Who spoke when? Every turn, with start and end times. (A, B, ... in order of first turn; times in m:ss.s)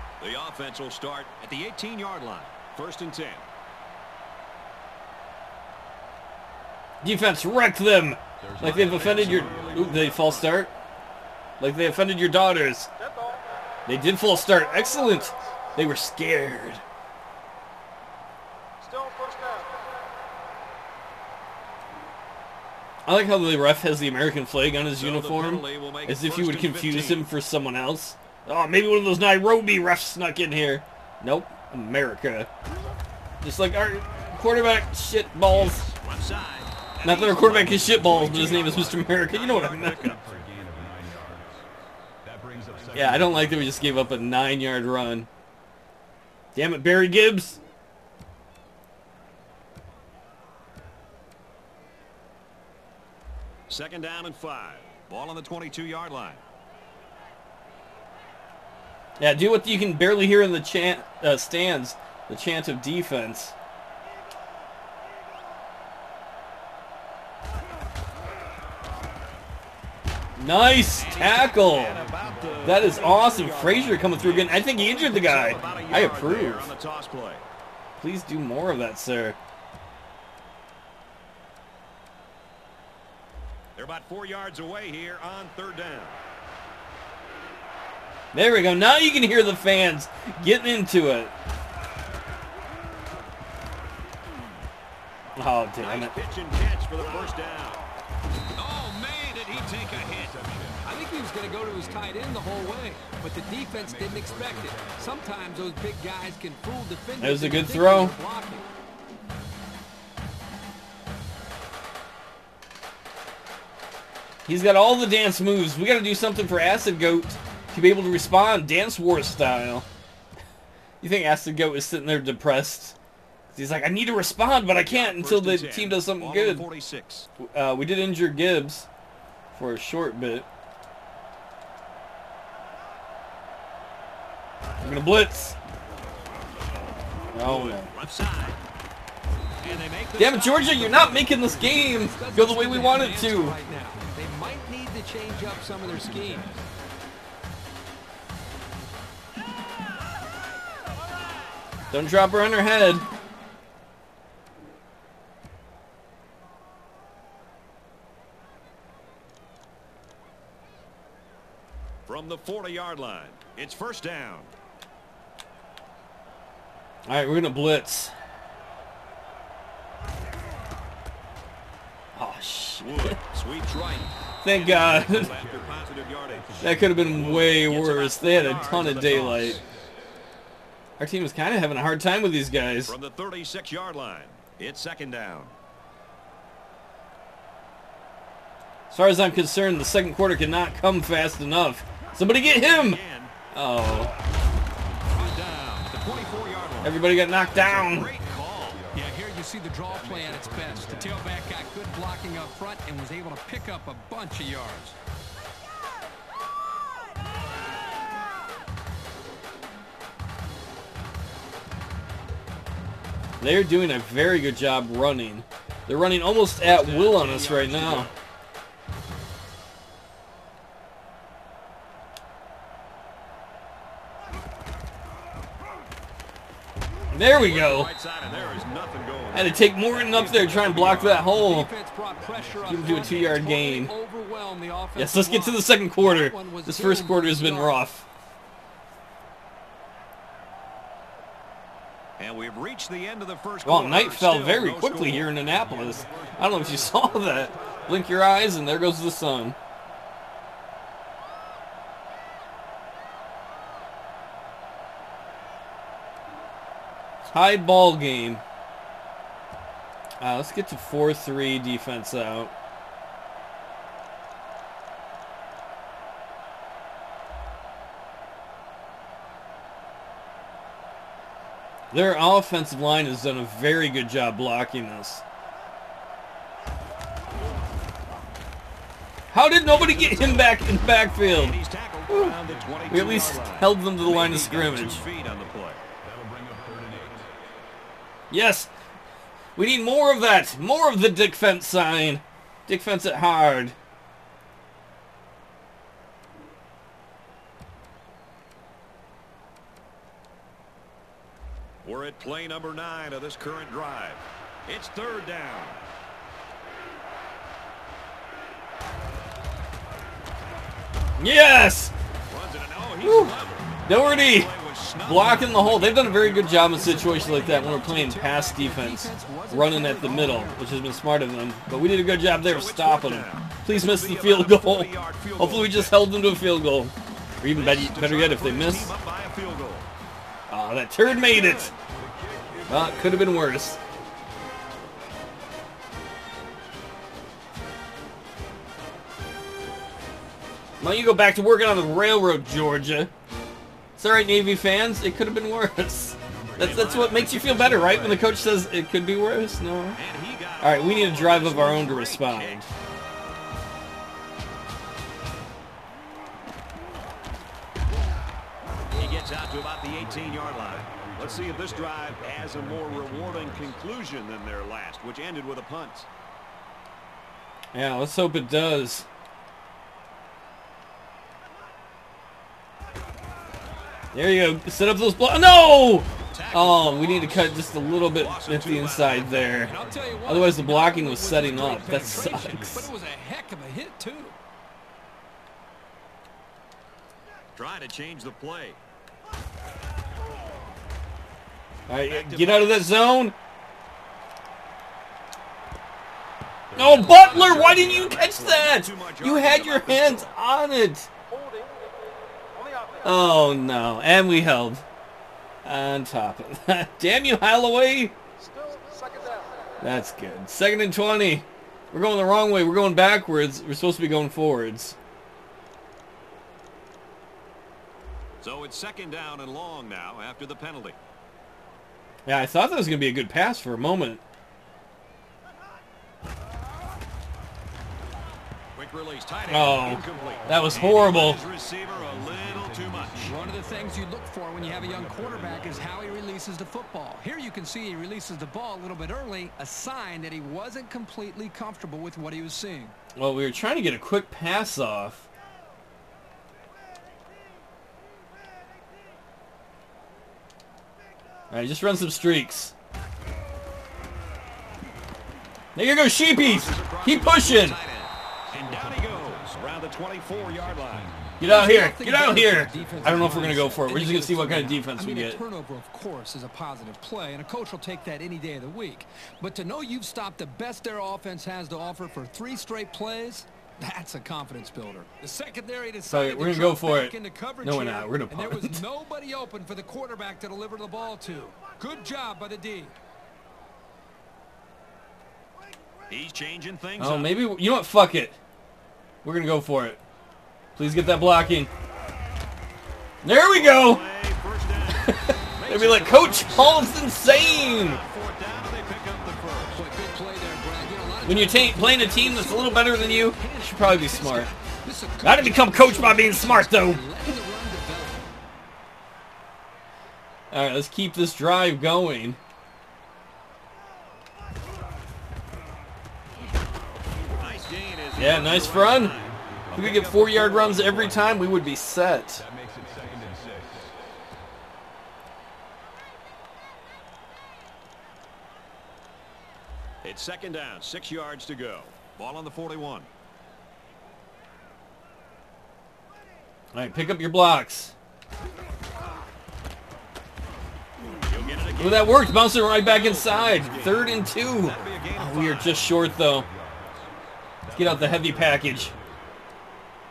0:00.2-0:03.4 A
0:07.0-0:10.7 B
0:08.4-0:10.2 C
0:08.6-0:10.6 A
0:11.6-0:12.9 B
0:13.9-0:16.8 B
0:23.0-0:32.5 B
0:25.0-0:27.2 A
0:33.4-0:35.8 B
0:35.5-0:40.2 A
0:37.0-0:40.2 B
0:37.6-0:41.7 C
0:42.2-0:44.1 C
0:42.9-0:45.3 B
0:46.6-0:47.6 B
0:53.7-0:56.4 A
0:59.2-1:03.6 B
1:10.4-1:12.0 B
1:10.9-1:17.4 A
1:11.8-1:14.2 C
1:12.6-1:16.7 B
1:15.3-1:16.4 C
1:18.0-1:19.4 B
1:23.8-1:26.2 A
1:28.3-1:31.3 B
1:35.4-1:36.2 B
1:35.8-1:37.8 A
1:38.6-1:40.4 A
1:39.4-1:42.4 C
1:40.8-1:48.7 D
1:43.7-1:45.2 C
1:47.2-1:48.2 B
1:54.5-1:59.9 B
2:01.0-2:03.0 B
2:03.5-2:06.7 B
2:04.9-2:07.3 A
2:07.4-2:08.9 B
2:09.6-2:10.5 B
2:14.8-2:15.6 B
2:17.3-2:17.9 B
2:17.4-2:18.6 A
2:19.6-2:21.1 A
2:20.2-2:23.6 B
2:20.2-2:26.5 D
2:25.3-2:26.7 C
2:31.9-2:33.1 B
2:42.1-2:44.5 A
2:47.1-2:48.1 B
2:52.2-2:53.2 B
2:52.8-2:59.6 A
2:54.4-2:55.3 B
2:54.7-2:57.6 C
2:56.6-2:59.6 B
2:58.7-2:59.9 C
3:01.0-3:03.0 B
3:02.9-3:05.5 A
3:08.9-3:13.0 B
3:12.4-3:13.3 A
3:13.5-3:14.1 B
3:15.1-3:18.8 A
3:16.8-3:18.1 B
3:18.2-3:19.3 C
3:18.9-3:25.0 D
3:19.8-3:21.2 C
3:33.4-3:38.1 B
3:36.6-3:38.2 A
3:47.1-3:47.9 B
3:47.2-3:51.2 A
3:49.3-3:51.7 B
3:51.0-3:57.8 D
3:52.2-3:53.4 C
3:52.7-3:53.9 B
3:55.0-3:58.1 B
4:02.2-4:05.3 A
4:03.6-4:09.6 B
4:05.4-4:07.9 C
4:17.2-4:18.4 B
4:20.2-4:22.5 B
4:31.9-4:35.2 B
4:39.3-4:41.6 B
4:39.7-4:45.8 A
4:42.1-4:42.4 B
4:42.4-4:43.4 C
4:42.9-4:45.0 B
4:46.0-4:47.4 C
4:48.3-4:48.7 B
4:49.6-4:53.8 B
5:01.8-5:05.8 A
5:11.2-5:11.9 B
5:12.3-5:16.9 A
5:13.0-5:29.0 B
5:16.7-5:20.6 D
5:22.4-5:26.1 A
5:27.4-5:29.9 A
5:30.5-5:31.7 B
5:31.0-5:31.8 A
5:31.9-5:33.6 C
5:32.7-5:33.8 B
5:40.8-5:43.1 B
5:44.0-5:50.0 B
5:46.3-5:47.2 C
5:46.6-5:48.3 A
5:50.0-5:52.6 A
5:50.6-5:52.7 B
5:58.9-6:06.1 A
5:59.9-6:04.0 C
6:07.7-6:09.1 B
6:14.1-6:19.7 B
6:16.3-6:19.7 A
6:19.1-6:20.5 C
6:19.6-6:24.4 D
6:20.2-6:22.9 B
6:21.4-6:22.8 C
6:27.6-6:28.8 A
6:31.9-6:33.4 B
6:32.1-6:33.0 A
6:36.7-6:38.5 C
6:36.8-6:41.1 B
6:36.8-6:40.4 A
6:43.0-6:44.8 B
6:45.6-6:48.2 B
6:48.6-6:49.3 D
6:49.8-6:55.0 B
6:58.4-7:01.0 A
7:02.2-7:04.2 B
7:08.8-7:13.4 A
7:09.5-7:11.4 B
7:10.5-7:11.0 C
7:11.9-7:14.0 C
7:13.2-7:23.0 D
7:14.6-7:16.2 C
7:23.2-7:25.3 B
7:31.5-7:32.7 B
7:35.8-7:37.8 B
7:36.4-7:41.1 A
7:38.5-7:43.8 C
7:41.4-7:45.4 B
7:41.4-8:03.0 D
7:56.1-7:58.8 B
8:06.1-8:07.3 A
8:07.0-8:08.4 B
8:09.2-8:10.0 B
8:10.8-8:11.7 B
8:13.2-8:14.0 B
8:13.5-8:19.8 A
8:14.9-8:18.0 B
8:19.7-8:28.3 D
8:21.2-8:24.5 B
8:25.2-8:27.1 B
8:30.5-8:32.4 B
8:37.4-8:41.0 A
8:38.2-8:39.2 B
8:39.1-8:40.0 C
8:39.7-8:42.4 B
8:40.6-8:41.5 C
8:42.4-8:44.0 C
8:50.0-8:53.1 A
8:56.7-8:57.9 B
9:01.3-9:05.9 A
9:01.8-9:06.5 B
9:03.7-9:05.0 C
9:05.9-9:07.1 C
9:07.6-9:09.3 C
9:07.7-9:08.9 B